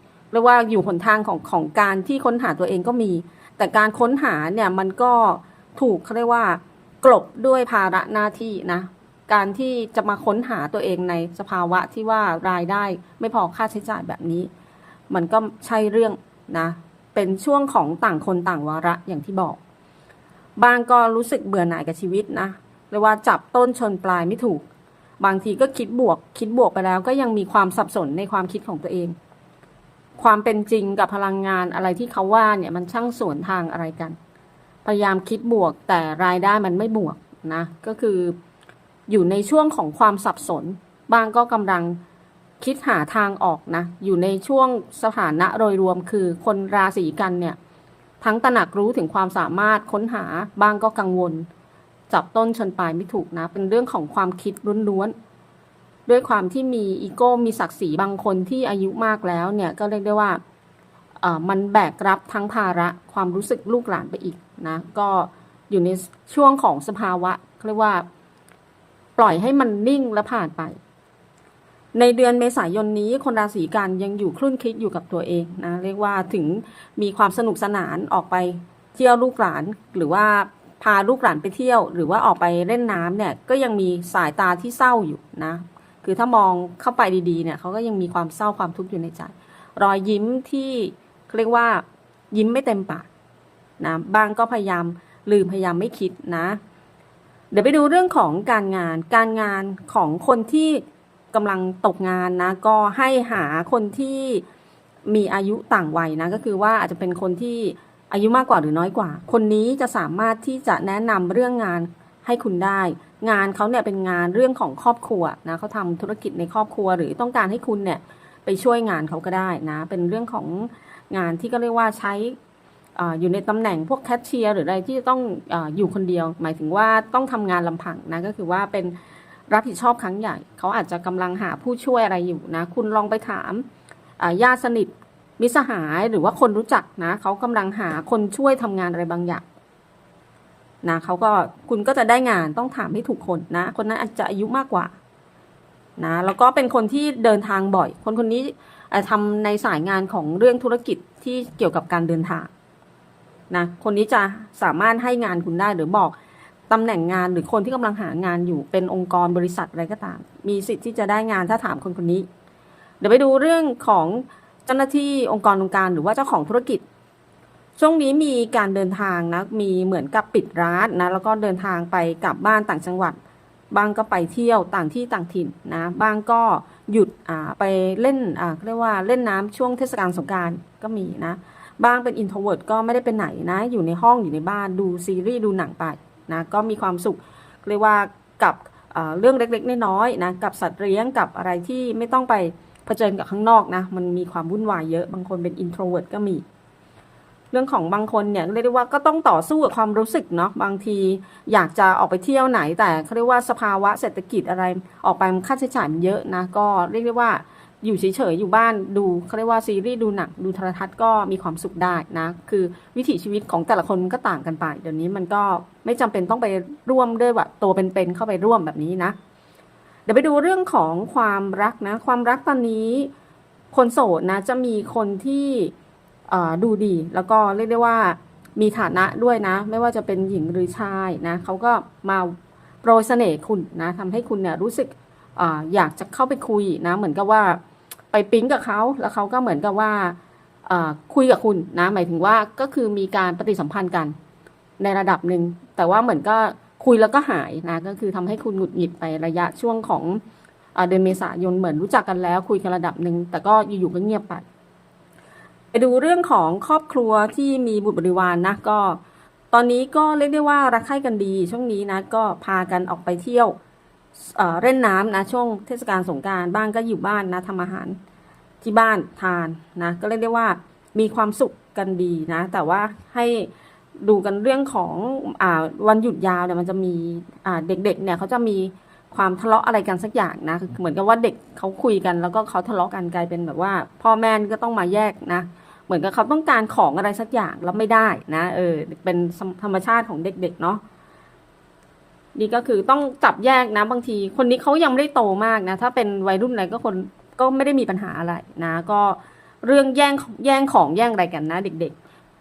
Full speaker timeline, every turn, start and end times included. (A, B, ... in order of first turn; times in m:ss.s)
0:00.3-0:14.5 A
0:15.1-0:19.6 A
0:20.6-0:24.6 A
0:25.2-0:29.1 A
0:30.2-0:34.2 A
0:34.8-0:38.4 A
0:39.1-0:42.0 A
0:42.6-0:47.6 A
0:48.2-0:51.5 A
0:52.1-0:55.1 A
0:56.1-1:00.4 A
1:01.2-1:08.0 A
1:09.2-1:10.8 A
1:11.9-1:33.1 A
1:33.8-1:36.6 A
1:37.5-1:44.4 A
1:45.1-2:02.4 A
2:03.0-2:09.0 A
2:09.5-2:13.6 A
2:14.2-2:19.4 A
2:20.8-2:24.9 A
2:26.0-2:32.5 A
2:33.5-2:36.2 A
2:36.7-2:42.2 A
2:43.0-2:46.8 A
2:47.8-2:53.2 A
2:53.7-3:16.4 A
3:17.5-3:39.2 A
3:40.1-3:43.1 A
3:43.7-3:45.7 A
3:46.3-3:57.6 A
3:58.1-4:04.1 A
4:04.8-4:10.2 A
4:10.7-4:14.4 A
4:15.7-4:19.0 A
4:19.5-4:23.5 A
4:24.3-4:28.0 A
4:28.6-4:50.8 A
4:52.3-5:02.0 A